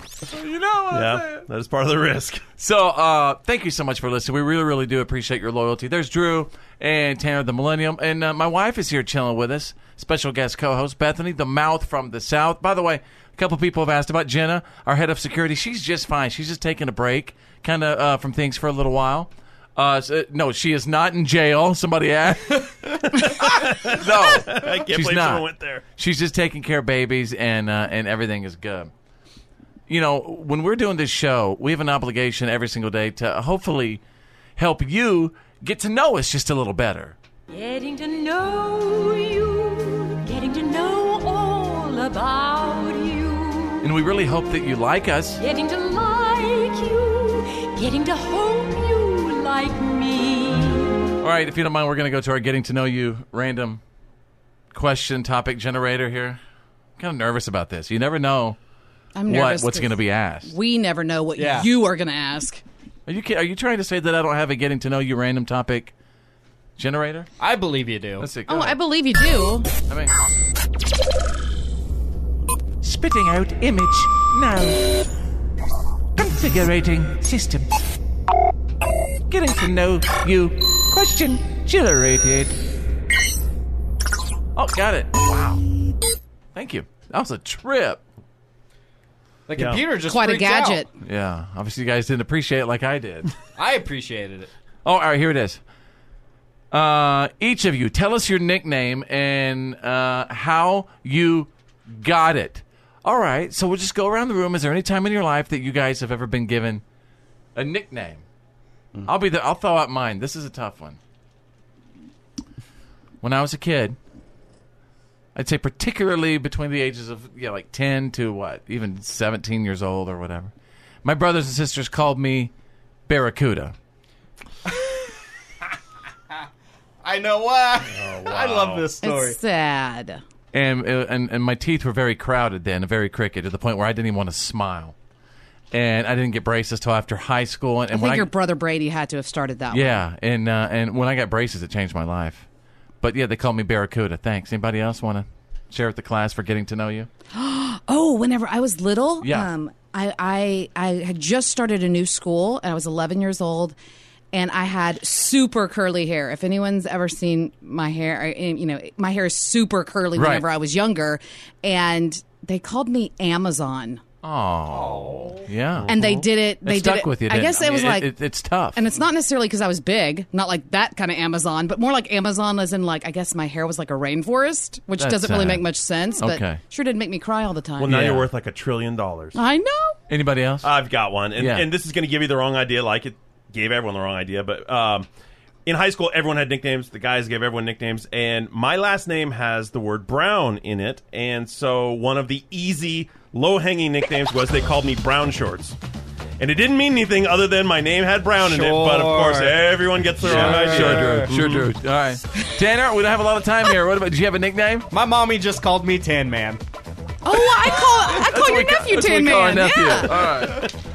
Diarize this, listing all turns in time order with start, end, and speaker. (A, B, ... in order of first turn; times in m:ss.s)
0:00.3-0:01.4 A
0:00.9-0:02.5 B
0:02.6-0:28.9 A
0:23.3-0:25.8 B
0:29.9-0:34.0 A
0:34.6-0:37.2 A
0:37.5-0:43.9 C
0:43.8-0:45.4 A
0:45.4-0:51.1 C
0:51.2-0:53.8 A
0:54.7-0:56.4 A
0:57.0-0:58.6 A
0:59.2-1:02.6 D
0:59.3-1:00.5 A
1:01.4-1:01.7 E
1:03.1-1:05.9 A
1:06.8-1:07.3 A
1:07.4-1:08.3 E
1:08.2-1:08.8 A
1:08.5-1:09.7 D
1:09.9-1:10.3 A
1:12.8-1:14.9 A
1:16.2-1:17.8 A
1:19.3-1:22.5 A
1:24.5-1:25.6 A
1:26.5-1:28.0 A
1:29.5-1:30.8 E
1:29.6-1:29.8 B
1:30.0-1:30.9 D
1:31.0-1:33.3 A
1:33.6-1:34.5 E
1:34.8-1:35.6 A
1:36.7-1:46.8 A
1:47.6-1:48.2 A
1:49.0-1:51.0 A
1:53.2-1:54.0 A
1:55.3-2:00.5 A
2:01.0-2:02.5 A
2:03.1-2:03.7 A
2:07.0-2:09.4 E
2:07.9-2:08.9 B
2:09.0-2:10.2 D
2:10.5-2:14.9 A
2:15.7-2:18.3 A
2:17.9-2:20.0 D
2:19.7-2:22.4 A
2:23.0-2:27.1 A
2:27.3-2:33.8 D
2:29.2-2:29.5 A
2:34.3-2:44.0 D
2:40.2-2:40.4 A
2:44.2-2:48.8 A
2:44.7-2:45.4 E
2:45.9-2:48.1 D
2:48.7-2:58.0 D
2:55.0-2:55.6 A
2:56.2-2:56.6 A
2:57.8-2:59.4 B
2:57.9-2:58.3 A
2:59.3-2:59.9 D
3:00.1-3:00.7 A
3:00.6-3:05.1 B
3:01.4-3:01.7 A
3:05.6-3:15.8 B
3:16.4-3:21.7 B
3:18.4-3:19.7 E
3:20.2-3:24.9 A
3:20.2-3:21.3 E
3:24.9-3:26.6 E
3:27.2-3:30.2 D
3:27.7-3:30.7 A